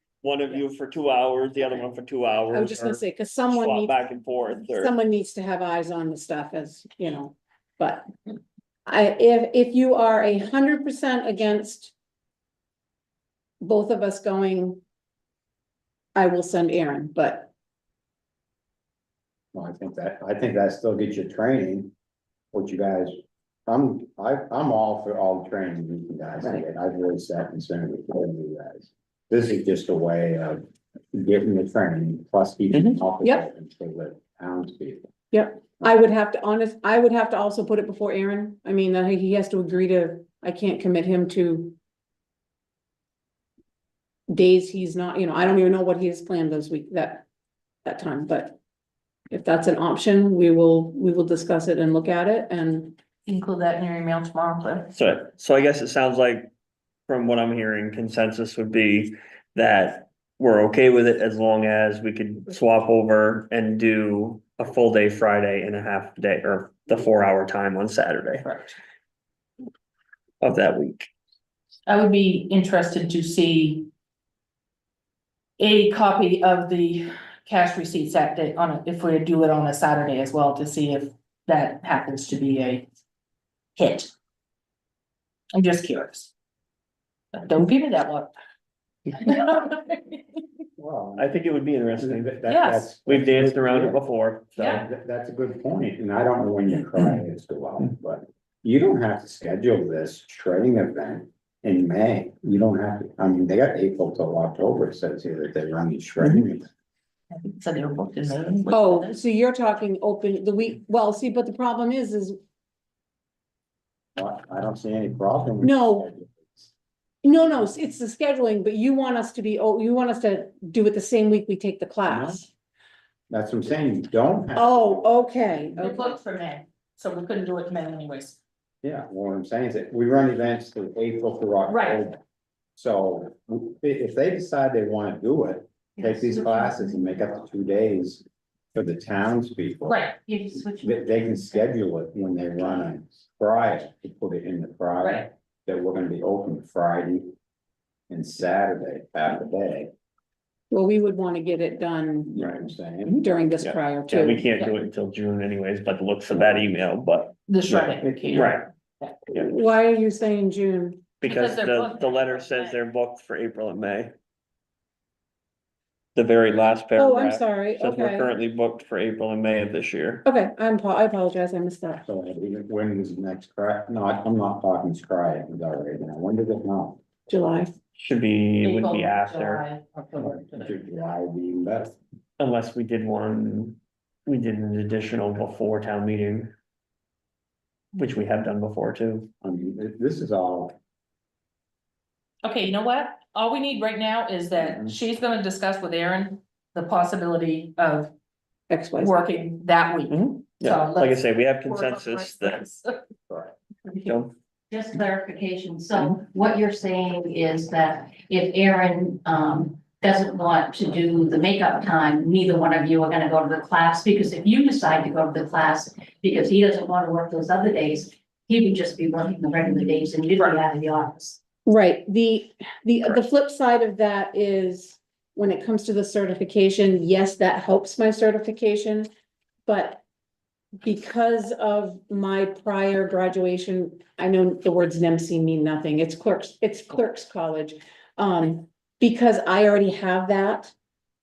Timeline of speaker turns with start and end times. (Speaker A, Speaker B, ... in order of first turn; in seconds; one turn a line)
Speaker A: 0.2-4.9
Speaker B: 2.5-8.1
Speaker B: 8.8-11.9
Speaker B: 13.6-14.8
Speaker B: 16.1-17.5
Speaker C: 19.5-21.9
Speaker C: 22.5-35.1
Speaker B: 35.3-41.8
Speaker B: 44.3-47.2
Speaker B: 47.8-48.6
Speaker B: 49.3-53.0
Speaker D: 53.3-54.9
Speaker A: 54.9-56.5
Speaker A: 57.1-68.4
Speaker D: 68.4-68.8
Speaker A: 70.4-71.1
Speaker D: 71.9-73.9
Speaker D: 75.6-82.9
Speaker D: 83.8-84.1
Speaker D: 85.5-86.3
Speaker D: 87.3-88.3
Speaker D: 89.1-90.2
Speaker C: 90.8-94.0
Speaker A: 91.2-92.4
Speaker D: 92.5-92.9
Speaker A: 93.0-94.8
Speaker D: 94.6-94.8
Speaker C: 94.7-106.7
Speaker D: 107.3-109.1
Speaker B: 108.7-112.4
Speaker C: 114.2-116.7
Speaker B: 115.6-116.1
Speaker B: 117.2-122.5
Speaker C: 122.0-122.5
Speaker C: 123.3-125.1
Speaker B: 124.5-126.2
Speaker D: 125.8-128.4
Speaker C: 128.8-132.2
Speaker D: 131.7-132.0
Speaker C: 132.8-140.0
Speaker E: 136.0-137.1
Speaker D: 139.9-140.2
Speaker E: 140.2-141.6
Speaker C: 140.8-147.3
Speaker C: 148.1-149.9
Speaker B: 150.7-152.4
Speaker C: 152.3-153.2
Speaker B: 153.0-154.5
Speaker A: 153.6-158.7
Speaker D: 157.5-159.2
Speaker B: 159.3-161.1
Speaker A: 161.2-164.1
Speaker D: 161.2-162.8
Speaker A: 166.1-170.2
Speaker B: 166.9-168.3
Speaker B: 170.2-172.1
Speaker C: 172.1-177.0
Speaker B: 177.3-177.7
Speaker A: 177.9-179.6
Speaker D: 178.6-180.7
Speaker C: 180.2-181.9
Speaker A: 182.4-186.5
Speaker A: 187.9-189.3
Speaker C: 189.4-190.8
Speaker D: 192.4-198.1
Speaker C: 194.6-195.0
Speaker B: 198.7-199.2
Speaker D: 199.0-203.0
Speaker A: 200.1-202.6
Speaker A: 204.0-204.3
Speaker E: 204.7-221.4
Speaker B: 221.7-229.1
Speaker B: 229.7-230.0
Speaker B: 230.8-240.7